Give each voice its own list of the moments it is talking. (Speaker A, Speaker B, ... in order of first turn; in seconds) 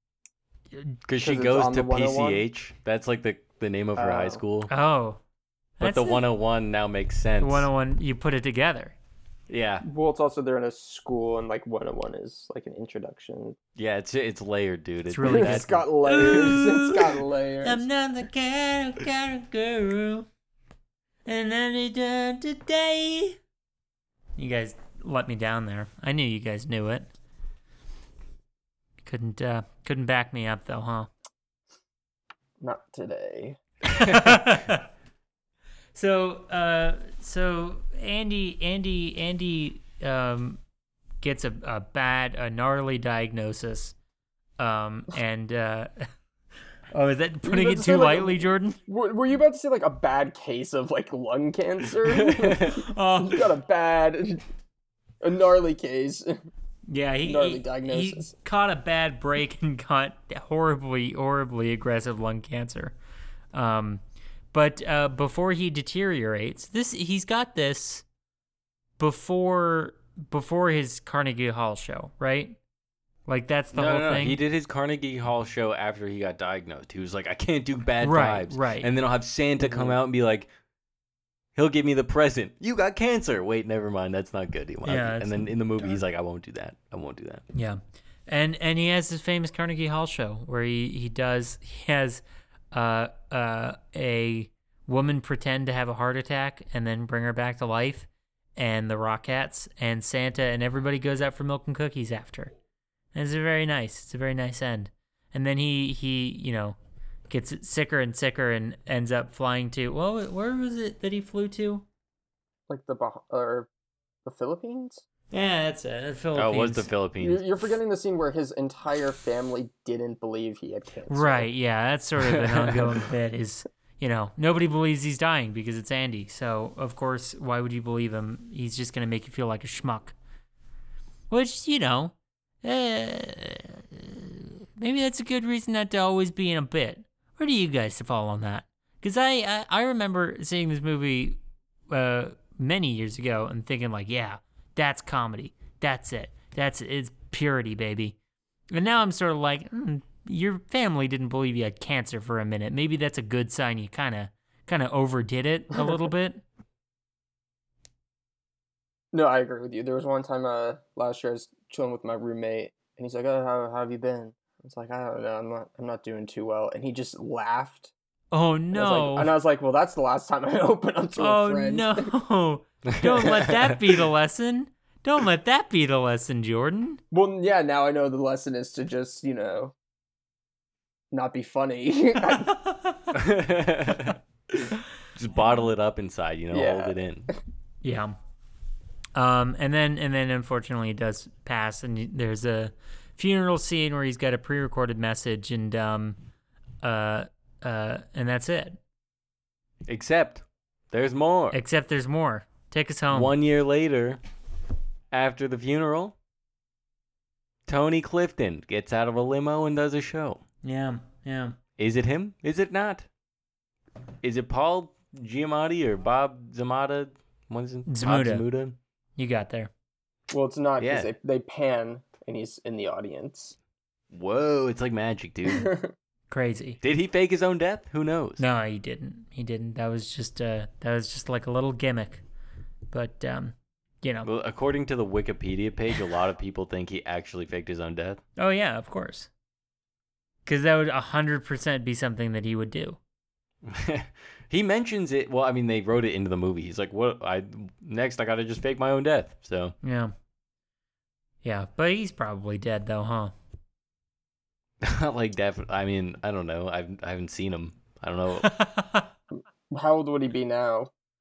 Speaker A: 1.1-4.7, 5.8-7.7, 9.5-9.8, 13.8-15.7, 52.1-52.8, 73.7-80.5, 81.5-87.4, 116.3-117.4, 122.2-123.0, 172.9-173.8, 183.1-187.3, 199.8-201.6, 203.1-204.2, 205.1-206.1, 207.7-210.4, 211.8-213.1, 214.2-218.8, 220.8-221.1, 224.1-225.7, 226.8-228.4, 234.2-238.2, 243.6-249.7, 254.8-258.5
Speaker B: 1.2-2.4, 4.0-4.4, 9.8-13.6, 15.2-17.8, 32.6-33.6, 47.5-54.4, 55.2-56.4, 57.2-58.3, 79.7-79.9, 112.7-113.7, 114.2-115.0, 117.2-121.5, 159.1-167.9, 168.7-172.1, 177.1-179.7, 181.1-182.6, 186.5-187.3, 220.3-223.6, 225.5-225.9, 259.7-260.9
Speaker C: 4.7-5.2, 5.8-6.2, 7.4-8.9, 15.1-20.3, 21.2-23.4, 24.4-27.1, 29.0-31.1, 33.9-34.9, 35.9-40.6, 41.2-43.9, 44.6-46.1, 46.9-48.8, 52.7-53.5, 56.9-63.0, 63.5-64.0, 64.5-68.0, 69.0-72.6, 73.3-74.4, 78.0-78.9, 84.8-86.0, 87.5-102.5, 103.1-106.8, 107.3-111.8, 115.3-116.9, 121.1-130.2, 131.3-141.4, 141.9-148.2, 148.7-156.4, 168.3-169.3, 171.2-177.0, 182.3-183.2, 187.8-188.1, 189.1-196.2, 196.8-198.8, 201.5-203.3, 210.6-211.6, 217.9-218.4, 219.2-219.7, 226.3-226.8, 228.4-232.2, 232.9-234.3, 238.4-239.3, 240.4-243.0, 249.8-250.1, 251.4-253.3, 258.4-259.1